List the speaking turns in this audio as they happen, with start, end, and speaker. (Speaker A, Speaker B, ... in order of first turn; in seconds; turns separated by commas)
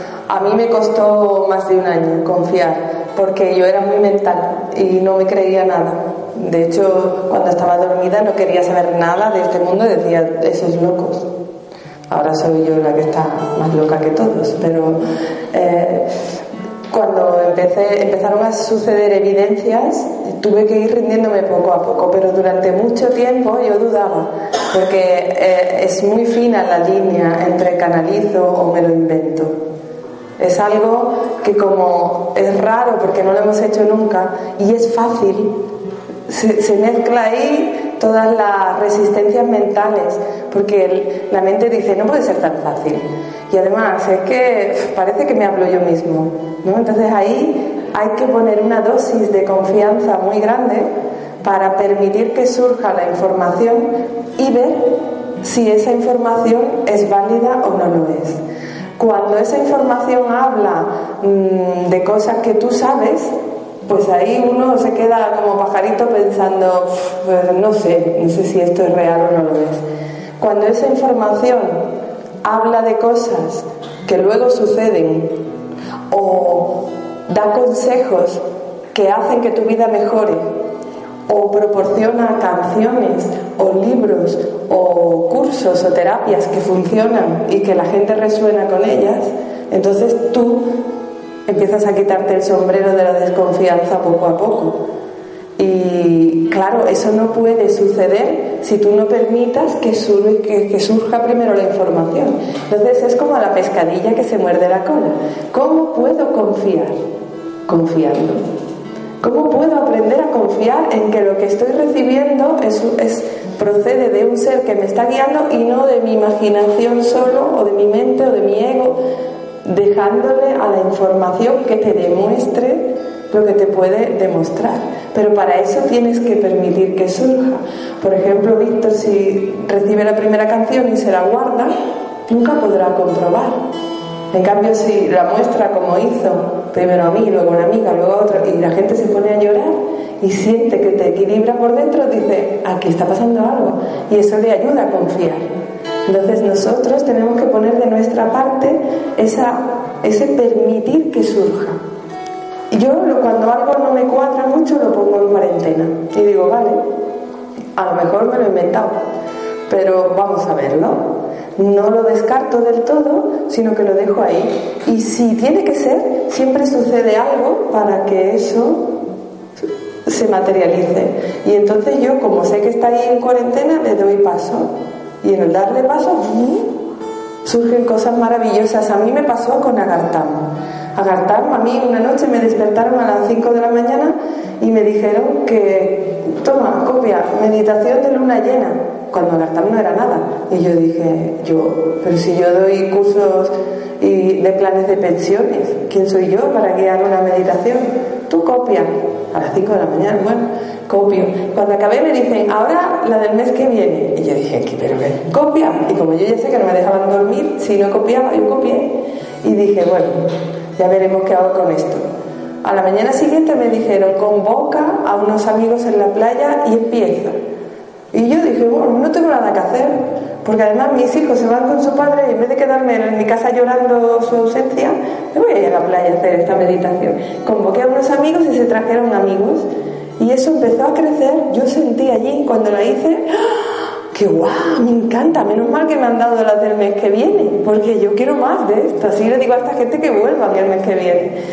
Speaker A: 0.3-11.3, Speaker A: 12.1-16.2, Speaker A: 16.9-29.6, Speaker A: 30.4-35.6, Speaker A: 36.3-50.9, Speaker A: 51.4-58.4, Speaker A: 59.0-63.4, Speaker A: 63.9-69.8, Speaker A: 70.4-71.9, Speaker A: 72.4-75.4, Speaker A: 76.1-80.5, Speaker A: 81.3-90.8, Speaker A: 91.5-94.9, Speaker A: 95.6-107.0, Speaker A: 107.7-108.4, Speaker A: 109.2-119.0, Speaker A: 119.7-131.8, Speaker A: 132.3-133.6, Speaker A: 134.3-145.5, Speaker A: 146.1-151.8, Speaker A: 152.7-156.8, Speaker A: 157.8-159.0, Speaker A: 159.7-169.0, Speaker A: 169.6-176.8, Speaker A: 177.4-212.1, Speaker A: 212.6-217.4, Speaker A: 218.1-229.7, Speaker A: 230.2-241.3